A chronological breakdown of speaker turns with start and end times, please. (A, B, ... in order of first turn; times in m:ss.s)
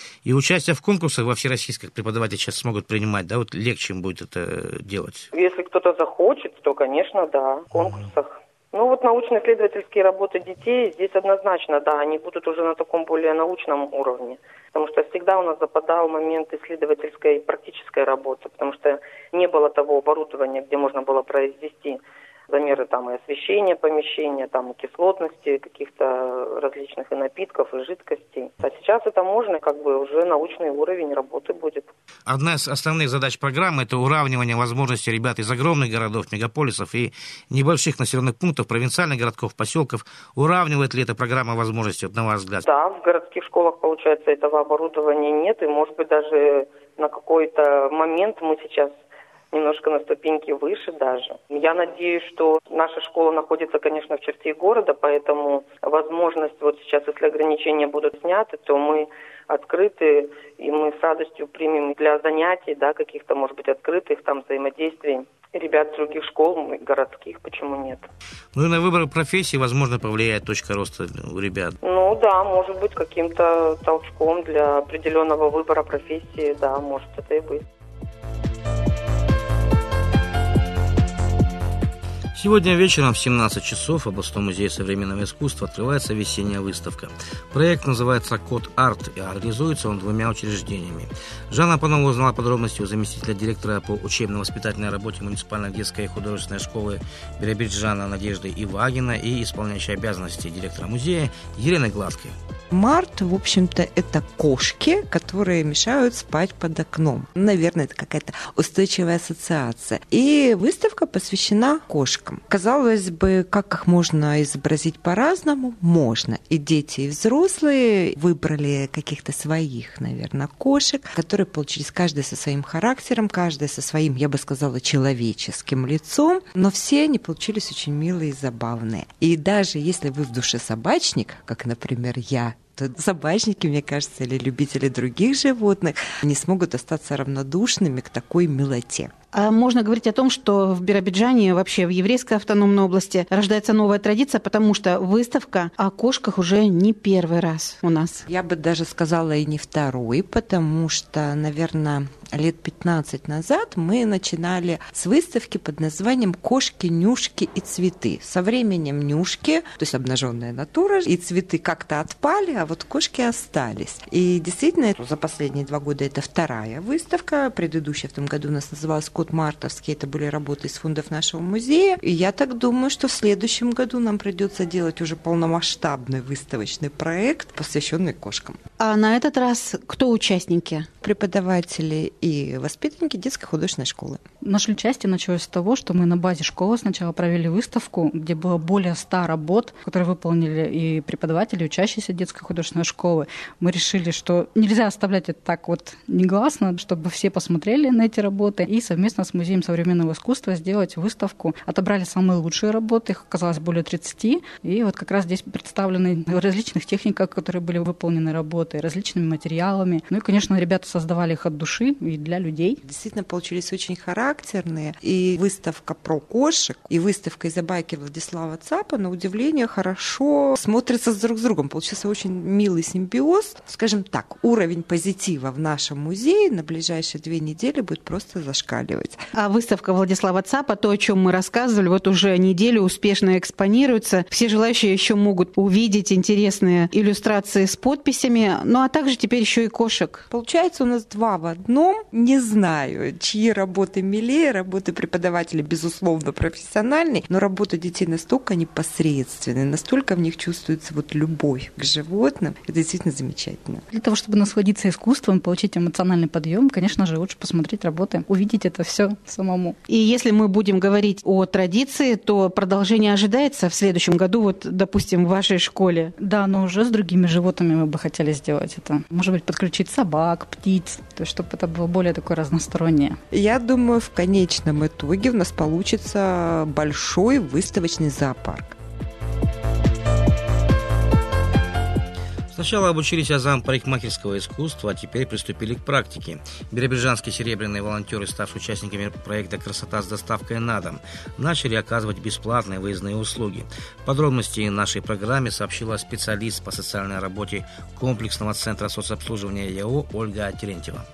0:00.2-0:05.3 A
0:05.3-0:31.9 B
0:32.2-0:42.6 A
0:42.6-0:48.9 B
0:49.5-1:08.0 B
1:08.5-1:11.8 A
1:11.8-1:17.6 B
1:22.3-1:42.3 A
1:42.7-2:19.1 C
2:19.3-2:28.2 D
2:28.2-2:58.6 C
2:58.8-3:00.9 D
3:01.0-3:04.2 C
3:04.4-3:32.8 E
3:32.8-3:49.2 C
3:49.3-4:00.3 D
4:00.3-4:13.8 C
4:13.9-4:19.8 E
4:19.9-4:26.1 D
4:26.2-4:33.2 E
4:33.3-4:38.8 C
4:42.5-5:01.0 A